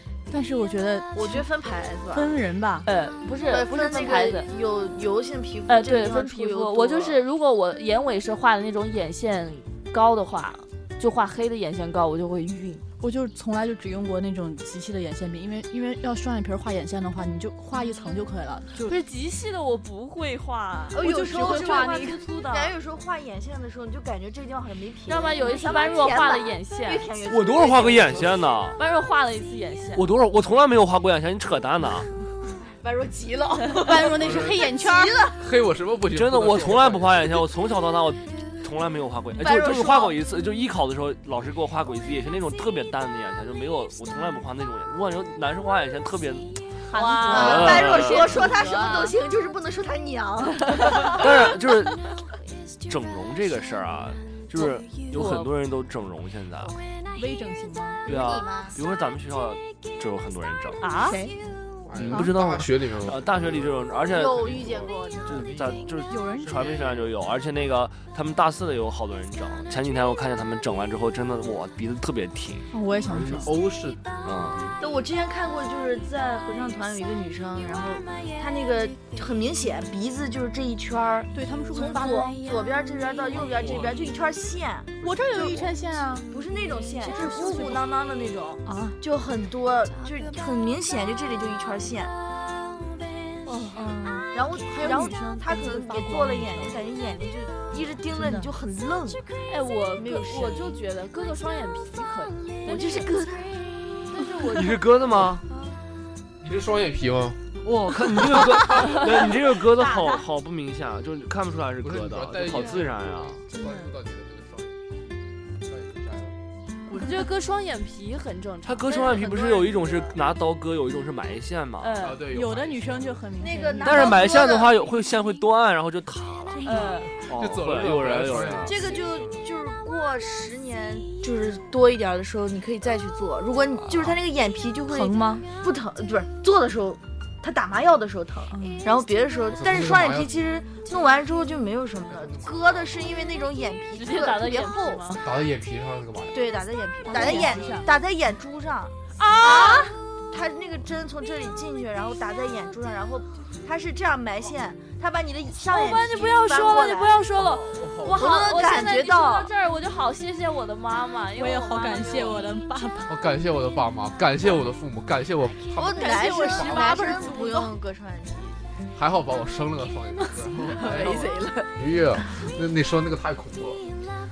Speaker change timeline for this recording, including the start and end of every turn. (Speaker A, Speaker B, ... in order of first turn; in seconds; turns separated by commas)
Speaker A: 0.3-1.5, Speaker B: 1.1-2.4, Speaker A: 2.1-2.9, Speaker C: 2.9-4.5, Speaker B: 3.5-7.2, Speaker C: 5.7-12.8, Speaker A: 13.0-18.9, Speaker C: 18.9-21.0, Speaker B: 20.9-28.4, Speaker A: 21.0-22.2, Speaker C: 22.1-22.8, Speaker C: 25.1-27.1, Speaker D: 27.3-28.8, Speaker C: 28.8-30.1, Speaker D: 29.9-32.1, Speaker B: 32.8-35.4, Speaker A: 33.8-35.2, Speaker E: 34.2-34.6, Speaker E: 35.4-37.3, Speaker D: 36.1-46.6, Speaker B: 39.4-40.2, Speaker C: 46.9-48.9, Speaker A: 46.9-49.1, Speaker D: 47.3-48.5, Speaker B: 47.3-51.5, Speaker D: 51.0-52.0, Speaker D: 52.9-56.8, Speaker C: 54.6-55.5, Speaker A: 57.1-58.0, Speaker B: 58.1-58.8, Speaker D: 58.1-60.8, Speaker C: 60.8-61.2, Speaker A: 61.0-61.4, Speaker E: 61.9-65.8, Speaker D: 61.9-64.8, Speaker B: 64.1-65.5, Speaker D: 65.3-72.7, Speaker A: 66.1-66.8, Speaker E: 66.5-67.1, Speaker A: 72.7-73.5, Speaker E: 73.1-74.8, Speaker D: 74.2-74.6, Speaker B: 74.8-85.6, Speaker A: 81.3-82.4, Speaker E: 83.3-84.2, Speaker E: 85.0-85.8, Speaker A: 85.0-86.3, Speaker B: 86.2-92.1, Speaker A: 87.0-87.9, Speaker A: 88.7-89.0, Speaker C: 93.5-93.9, Speaker A: 93.7-96.8, Speaker B: 94.3-99.2, Speaker A: 98.1-98.5, Speaker C: 99.5-103.1, Speaker B: 99.9-100.8, Speaker B: 102.7-103.9, Speaker C: 104.1-104.8, Speaker D: 104.5-105.4, Speaker E: 106.4-107.4, Speaker D: 107.6-113.4, Speaker B: 109.8-110.2, Speaker E: 111.8-114.8, Speaker A: 113.5-113.9, Speaker E: 115.6-116.4, Speaker C: 116.9-119.4, Speaker D: 118.7-122.1, Speaker B: 118.9-120.2, Speaker C: 121.8-122.2, Speaker E: 122.0-123.2, Speaker A: 122.3-124.2, Speaker B: 123.4-124.9, Speaker D: 123.8-128.8, Speaker A: 126.5-127.1, Speaker C: 126.6-127.2, Speaker E: 127.2-129.4, Speaker B: 128.7-145.1, Speaker D: 133.8-134.2, Speaker A: 134.9-135.4, Speaker A: 138.5-138.9, Speaker E: 139.5-140.3, Speaker E: 142.1-143.3, Speaker C: 143.9-145.2, Speaker E: 145.2-146.6, Speaker B: 146.3-157.2, Speaker A: 147.1-147.9, Speaker C: 149.2-149.9, Speaker C: 155.6-162.5, Speaker E: 157.4-158.4, Speaker B: 158.1-159.5, Speaker A: 161.4-163.2, Speaker E: 163.1-167.1, Speaker B: 165.8-168.7, Speaker A: 165.9-167.7, Speaker E: 168.9-173.8, Speaker B: 170.8-171.7